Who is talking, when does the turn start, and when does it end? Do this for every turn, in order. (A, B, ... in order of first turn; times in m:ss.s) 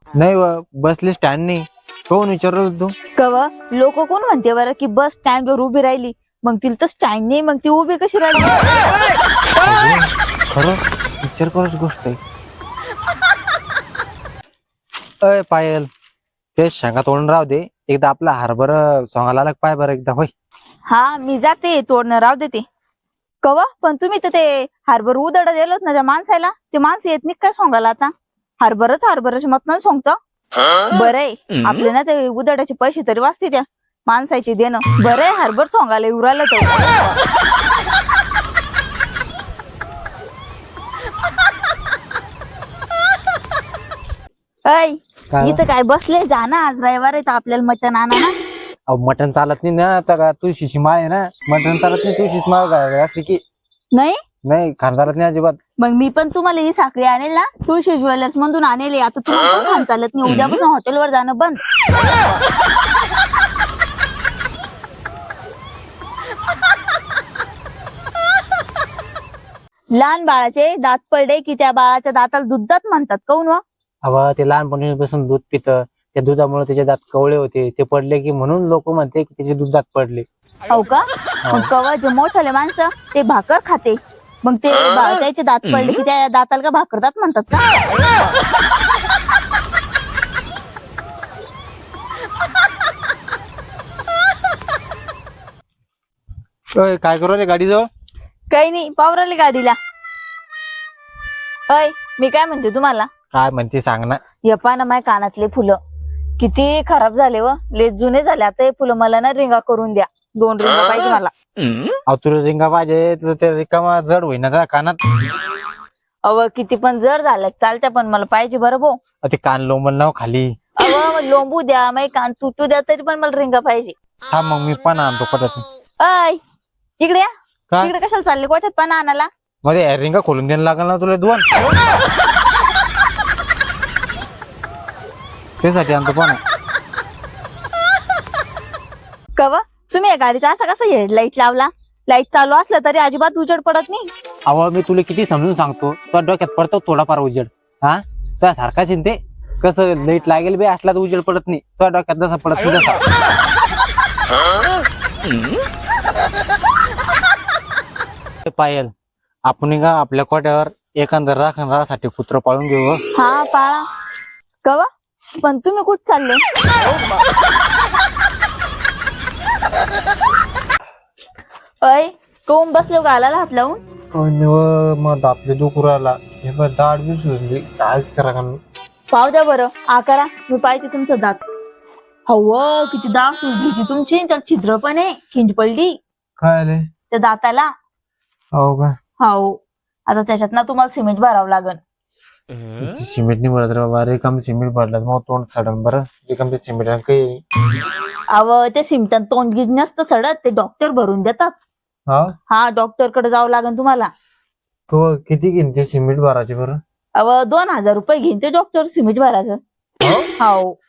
0:00.2-0:02.9 A
0:03.2-0:08.6 B
0:09.6-0:12.2 A
0:15.2-0:15.9 A
0:16.6-0:20.3 A
0:20.9-0:22.6 B
0:23.4-0:30.2 B
0:30.9-0:36.7 B
0:44.6-0:48.3 B
0:45.3-0:45.6 A
0:48.9-0:53.4 A
0:54.4-0:55.6 A
0:55.8-1:01.6 B
1:10.0-1:13.6 B
1:14.0-1:20.2 A
1:20.7-1:27.7 B
1:21.4-1:21.7 A
1:36.8-1:37.9 A
1:38.5-1:39.8 B
1:41.7-1:43.1 B
1:43.3-1:44.2 A
1:44.4-1:45.8 B
1:46.4-1:51.3 B
1:52.1-1:55.0 A
1:56.2-1:59.0 B
1:59.2-2:00.5 A
2:00.8-2:03.9 B
2:04.3-2:05.6 A
2:06.0-2:06.4 B
2:07.0-2:07.3 B
2:07.8-2:09.3 B
2:09.6-2:11.4 A
2:15.6-2:16.4 A
2:19.4-2:24.1 B
2:24.5-2:33.0 A
2:38.4-2:38.9 A
2:39.5-2:43.0 A
2:43.1-2:43.8 B
2:44.6-2:46.4 B
2:51.8-2:53.8 B
2:54.1-2:58.6 A
2:59.1-3:01.4 B
3:02.3-3:06.0 B
3:06.4-3:06.8 A
3:07.1-3:07.7 B
3:08.5-3:08.9 A
3:09.2-3:11.8 B
3:12.8-3:17.4 A
3:18.3-3:21.6 B
3:22.1-3:22.3 A
3:22.5-3:24.1 B
3:24.9-3:26.8 A
3:27.2-3:29.6 B
3:30.0-3:30.3 A
3:30.4-3:30.7 B